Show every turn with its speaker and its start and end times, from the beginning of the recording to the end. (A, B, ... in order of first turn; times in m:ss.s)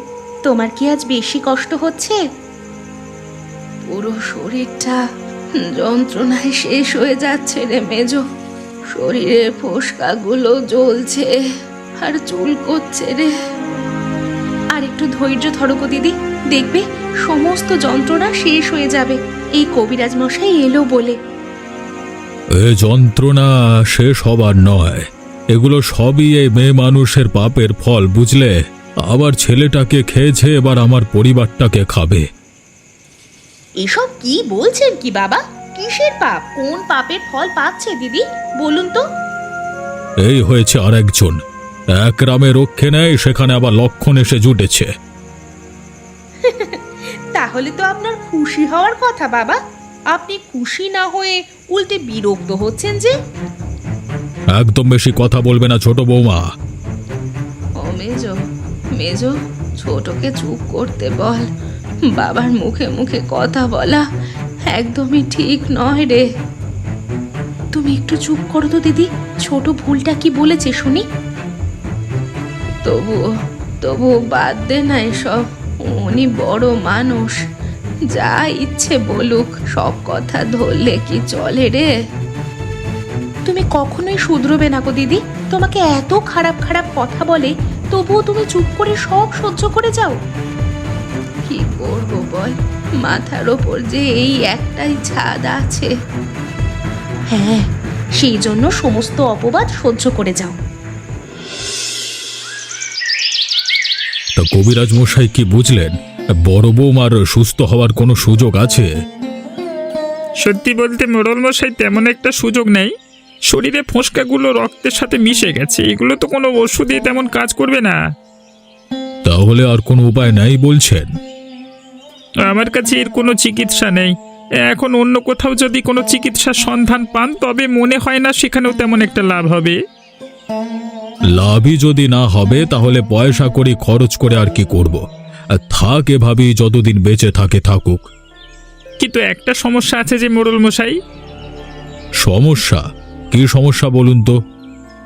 0:00.4-0:02.2 A
0:03.9-0:05.0 A
0:05.6-0:08.2 A
0:08.9-0:11.4 A
0:12.0-0:13.3 A
0:14.7-0:21.2 A
0:22.6-0:28.5 B
0:29.0-0:32.2 B
0:33.8-0:39.0 A
0:40.2-0:41.4 B
0:41.9-0:44.9 B
0:46.4-0:46.8 A
0:47.3-0:49.6 A
0:50.1-0:53.1 A
0:54.5-0:56.5 B
0:57.8-0:58.4 A
0:58.9-1:01.5 A
1:02.1-1:04.0 A
1:04.7-1:06.3 A
1:07.7-1:11.0 A
1:12.8-1:13.2 A
1:13.8-1:17.4 A
1:18.1-1:21.9 A
1:23.5-1:30.2 A
1:31.5-1:35.9 A
1:37.3-1:37.7 A
1:38.2-1:40.6 A
1:44.4-1:45.9 B
1:46.4-1:48.9 B
1:50.4-1:52.9 C
1:53.5-1:58.0 C
1:59.2-2:01.1 B
2:02.4-2:09.8 C
2:11.3-2:18.1 B
2:19.0-2:20.9 C
2:22.2-2:24.4 B